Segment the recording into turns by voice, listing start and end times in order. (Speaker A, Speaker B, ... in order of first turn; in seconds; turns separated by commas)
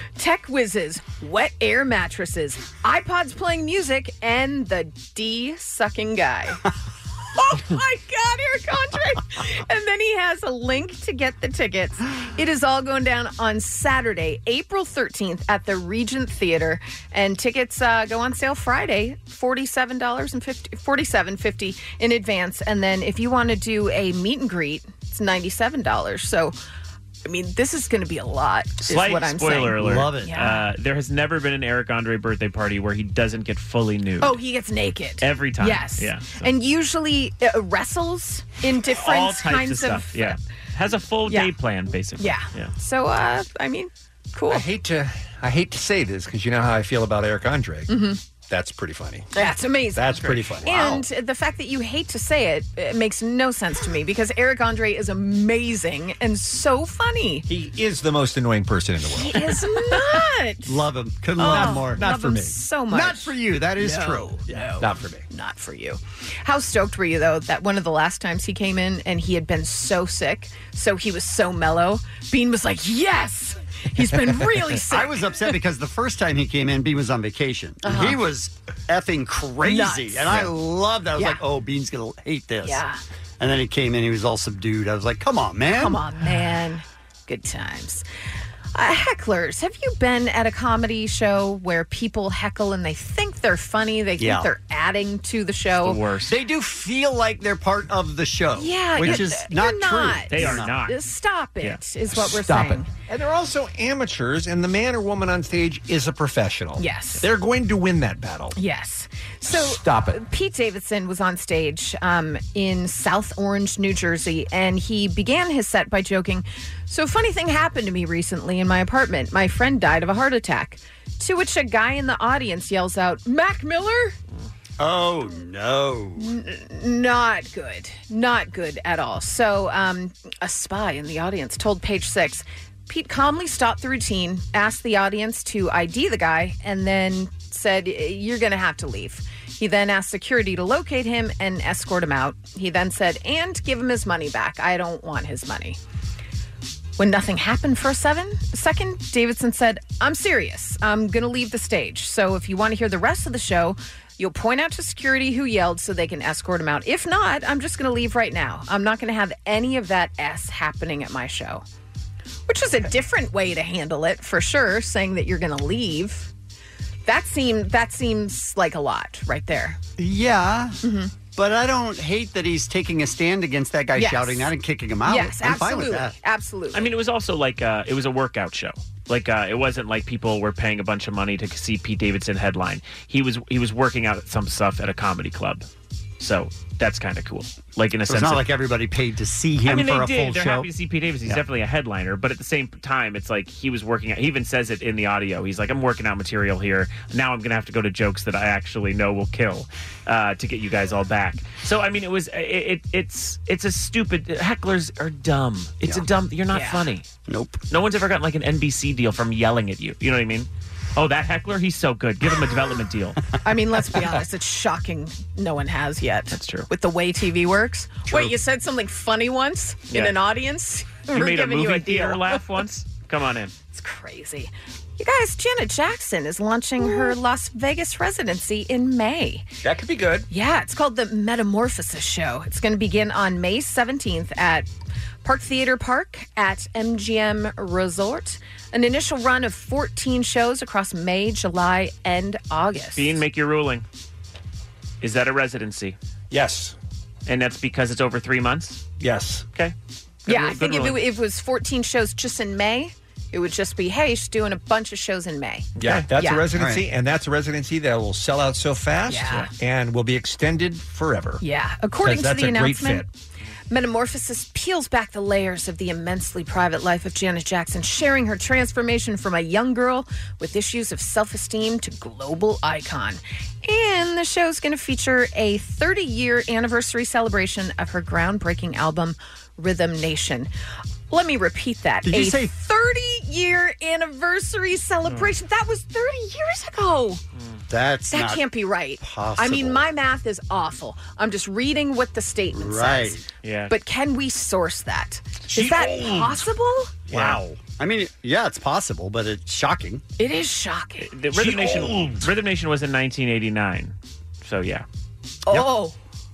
Speaker A: 0.2-6.6, Speaker A: 7.3-26.6, Speaker A: 27.2-30.7, Speaker B: 28.9-34.4, Speaker C: 29.8-30.3, Speaker A: 34.2-40.4, Speaker B: 35.2-36.5, Speaker B: 38.9-42.7, Speaker A: 42.2-44.6, Speaker D: 44.5-47.9, Speaker A: 47.9-48.2, Speaker D: 48.5-49.3, Speaker A: 49.3-57.5, Speaker D: 49.9-51.0, Speaker D: 57.5-59.6, Speaker A: 59.2-60.8, Speaker C: 60.6-62.1, Speaker A: 61.4-75.5, Speaker D: 61.4-62.6, Speaker C: 62.9-64.4, Speaker D: 64.5-65.2, Speaker C: 74.9-82.8, Speaker A: 77.8-78.2, Speaker A: 79.6-80.5, Speaker A: 81.2-81.4, Speaker A: 82.6-83.0, Speaker C: 83.4-86.0, Speaker A: 85.7-88.0, Speaker A: 88.7-96.0, Speaker C: 94.2-94.5, Speaker B: 95.8-96.4, Speaker C: 96.3-100.8, Speaker A: 98.5-102.9, Speaker B: 100.3-101.0, Speaker C: 102.5-102.8, Speaker D: 103.1-108.5, Speaker A: 106.8-107.2, Speaker A: 108.5-124.1, Speaker D: 109.8-110.1, Speaker C: 124.8-126.3, Speaker A: 126.2-145.8, Speaker A: 147.0-161.6, Speaker A: 162.5-166.3, Speaker A: 167.1-169.8, Speaker C: 170.0-170.8, Speaker A: 170.8-171.1, Speaker C: 171.3-176.1, Speaker A: 173.9-174.5, Speaker A: 175.0-176.9, Speaker B: 176.7-185.7, Speaker B: 186.2-188.5, Speaker C: 188.1-190.7, Speaker B: 189.6-207.0, Speaker A: 206.5-206.8, Speaker C: 207.3-207.6, Speaker B: 207.7-213.2, Speaker A: 213.4-222.4, Speaker B: 216.3-216.7, Speaker B: 221.1-223.5, Speaker A: 223.7-229.5, Speaker D: 229.6-230.3, Speaker A: 230.3-234.7, Speaker A: 235.2-243.2, Speaker B: 242.9-243.8, Speaker B: 245.0-246.0, Speaker D: 246.3-246.8, Speaker B: 247.3-248.8, Speaker D: 249.0-249.4, Speaker B: 250.2-251.0, Speaker A: 250.3-256.4, Speaker D: 255.8-261.4, Speaker B: 255.8-256.1, Speaker C: 256.5-256.8, Speaker A: 259.1-259.5, Speaker A: 261.4-263.1, Speaker D: 262.0-263.1, Speaker A: 263.7-280.5, Speaker A: 281.1-287.2, Speaker C: 282.0-282.5, Speaker B: 285.0-285.3, Speaker B: 287.3-287.6, Speaker C: 287.7-288.4, Speaker A: 288.1-296.9, Speaker C: 289.0-289.9, Speaker C: 292.5-293.2, Speaker B: 293.4-293.7, Speaker B: 297.1-297.4, Speaker C: 297.1-300.0, Speaker A: 300.2-301.1, Speaker B: 301.0-304.9, Speaker A: 305.5-305.9